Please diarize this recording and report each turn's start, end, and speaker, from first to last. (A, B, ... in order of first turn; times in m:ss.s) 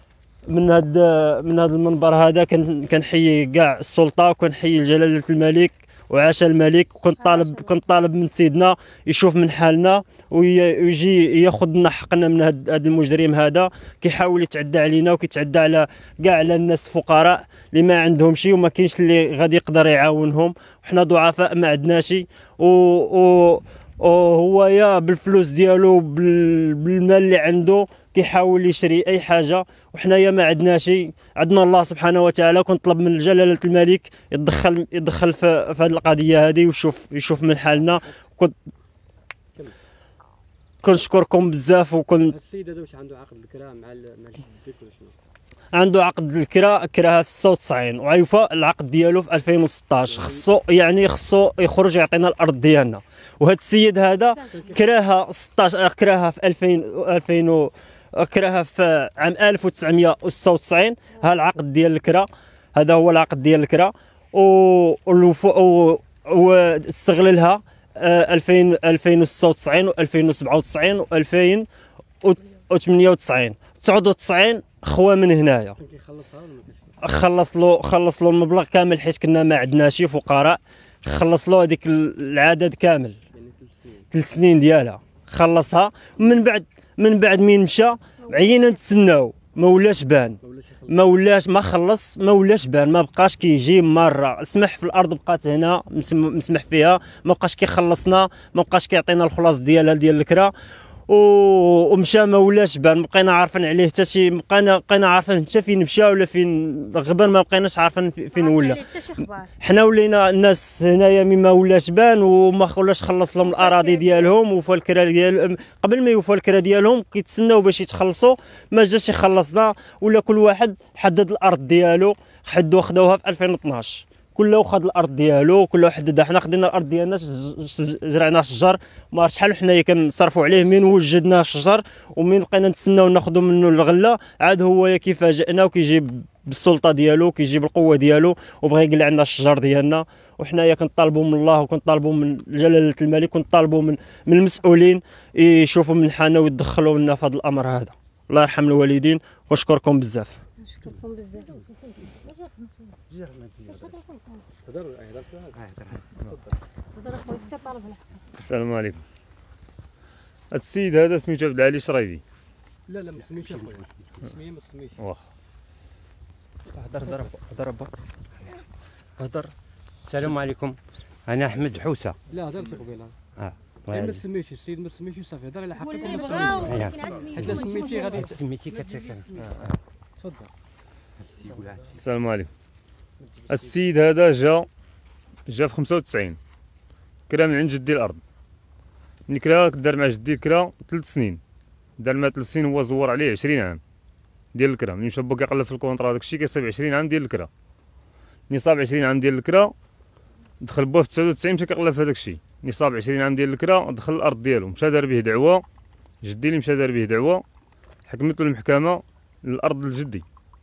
0:00.5-0:38.6 A
0:07.2-0:07.7 B
0:37.8-0:38.0 C
0:40.8-0:42.4 A
0:42.3-0:45.2 C
0:45.7-1:11.7 A
0:50.1-0:50.5 C
0:54.5-0:54.8 C
1:12.2-1:15.8 A
1:15.8-1:17.0 C
1:17.0-1:23.2 A
1:23.3-1:24.1 C
1:24.1-1:40.5 A
1:30.4-1:31.1 C
1:41.1-1:48.8 A
1:48.3-1:49.5 B
1:49.6-2:30.4 A
1:53.5-1:54.2 B
2:30.6-2:31.5 B
2:33.1-2:33.9 D
2:33.8-2:34.4 B
2:34.6-2:36.6 C
2:35.6-2:36.0 D
2:37.0-2:38.0 B
2:38.3-2:39.0 E
2:40.5-2:42.2 E
2:42.9-2:45.0 C
2:43.3-2:43.8 D
2:46.7-2:47.9 A
2:49.2-2:49.5 A
2:50.0-2:52.2 D
2:52.3-2:53.1 C
2:53.4-2:54.2 D
2:53.9-3:00.5 C
2:55.8-2:58.3 B
2:56.4-2:59.8 D
3:01.4-3:02.0 D
3:01.5-3:01.7 C
3:01.9-3:02.5 E
3:03.2-3:03.8 C
3:03.5-3:04.7 E
3:05.5-3:06.4 E
3:07.3-3:08.2 E
3:09.3-3:11.4 E
3:12.0-3:13.8 E
3:14.5-3:17.5 E
3:18.5-3:19.7 E
3:20.6-3:25.6 E
3:26.2-3:27.4 E
3:28.1-3:30.2 E